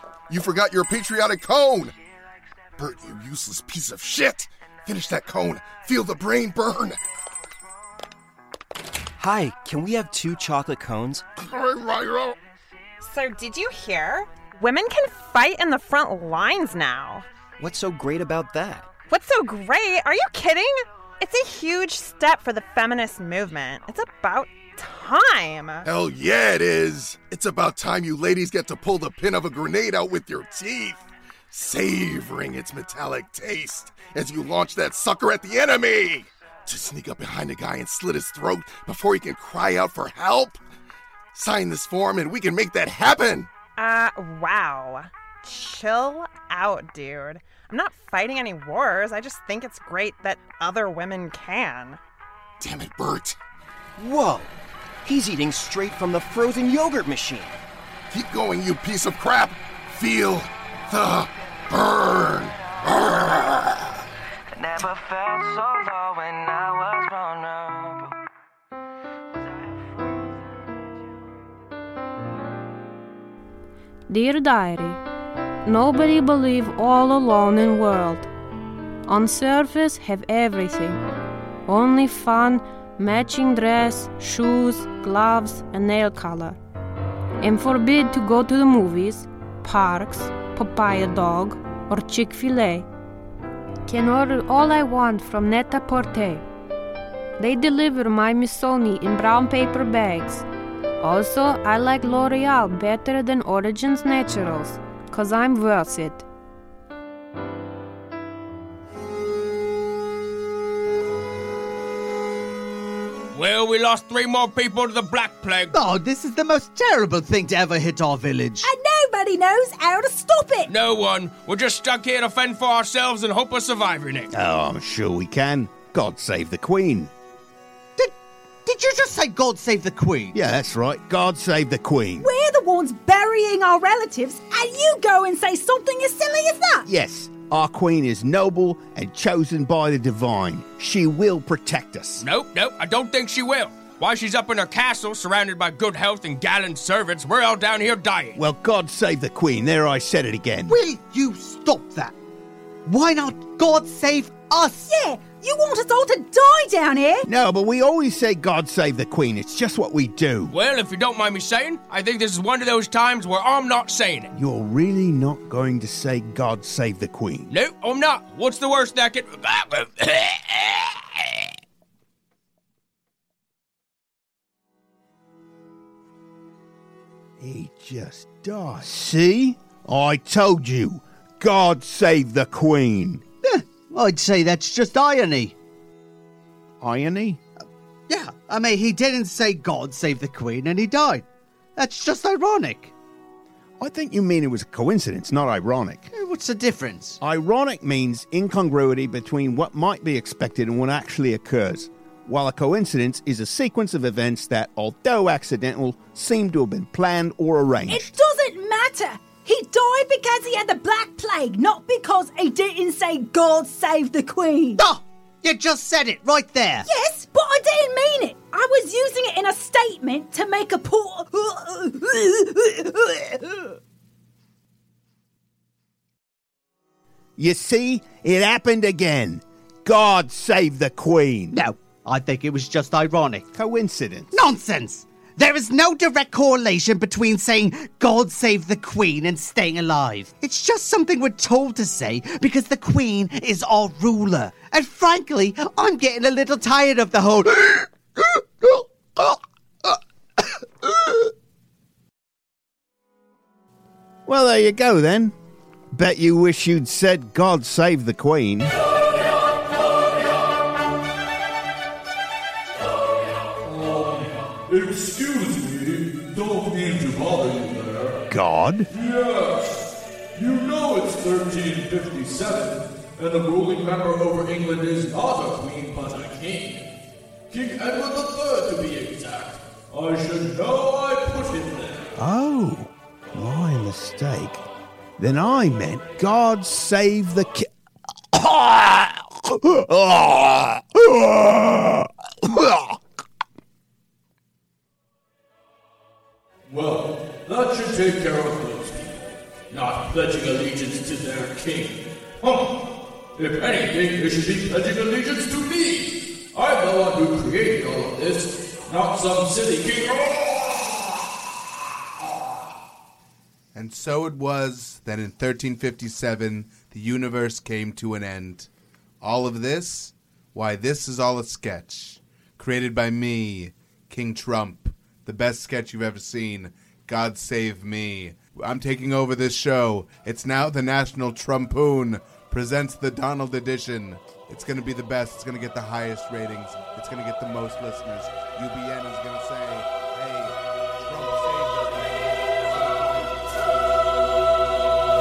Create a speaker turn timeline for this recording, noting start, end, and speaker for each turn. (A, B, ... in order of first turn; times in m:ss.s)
0:00.3-0:02.0 A
0:02.8-0:07.0 A
0:09.2-0:11.3 B
0:11.4-0:12.4 A
0:13.0-0:17.3 C
0:17.6-0:18.9 B
0:19.1-0:25.8 C
0:25.8-0:40.6 A
0:41.3-0:43.5 A
0:43.8-0:52.0 C
0:52.6-0:53.4 A
0:54.0-0:57.6 B
0:58.1-1:03.6 A
1:04.6-1:08.1 D
1:14.1-1:15.0 E
1:15.6-1:18.3 E
1:19.1-1:21.0 E
1:21.7-1:26.6 E
1:27.4-1:32.9 E
1:33.9-1:36.4 E
1:37.4-1:40.4 E
1:41.0-1:46.3 E
1:53.3-1:55.8 F
1:55.7-1:58.6 G
1:58.6-2:00.7 H
2:00.7-2:04.3 F
2:04.3-2:07.1 I
2:08.7-2:10.4 G
2:10.3-2:12.3 I
2:12.2-2:16.9 H
2:16.9-2:22.3 I
2:22.2-2:28.4 F
2:28.4-2:30.8 I
2:30.7-2:32.2 G
2:32.8-2:34.9 G
2:34.9-2:37.2 H
2:37.3-2:40.5 I
2:40.5-2:44.3 F
2:44.3-2:47.5 I
2:47.5-2:51.0 F
2:57.4-3:03.2 I
3:03.4-3:05.5 G
3:06.8-3:07.4 I
3:08.1-3:11.2 G
3:11.8-3:12.9 G
3:13.8-3:16.1 I
3:16.2-3:17.2 G
3:17.2-3:28.2 I
3:27.9-3:34.9 H
3:34.8-3:36.9 G
3:36.8-3:43.4 H
3:47.4-3:51.6 I
3:51.5-3:53.4 G
3:53.5-3:54.4 I
3:54.3-4:07.9 G
4:14.3-4:15.3 I
4:15.9-4:18.7 I
4:23.6-4:28.2 J
4:28.3-4:28.9 I
4:28.9-4:36.8 J
4:37.5-4:42.1 J
4:42.2-4:44.6 I
4:45.2-4:47.7 I
4:48.3-4:53.0 I
4:56.7-5:02.8 J
5:03.4-5:10.5 J
5:13.7-5:18.7 K
5:19.2-5:43.5 K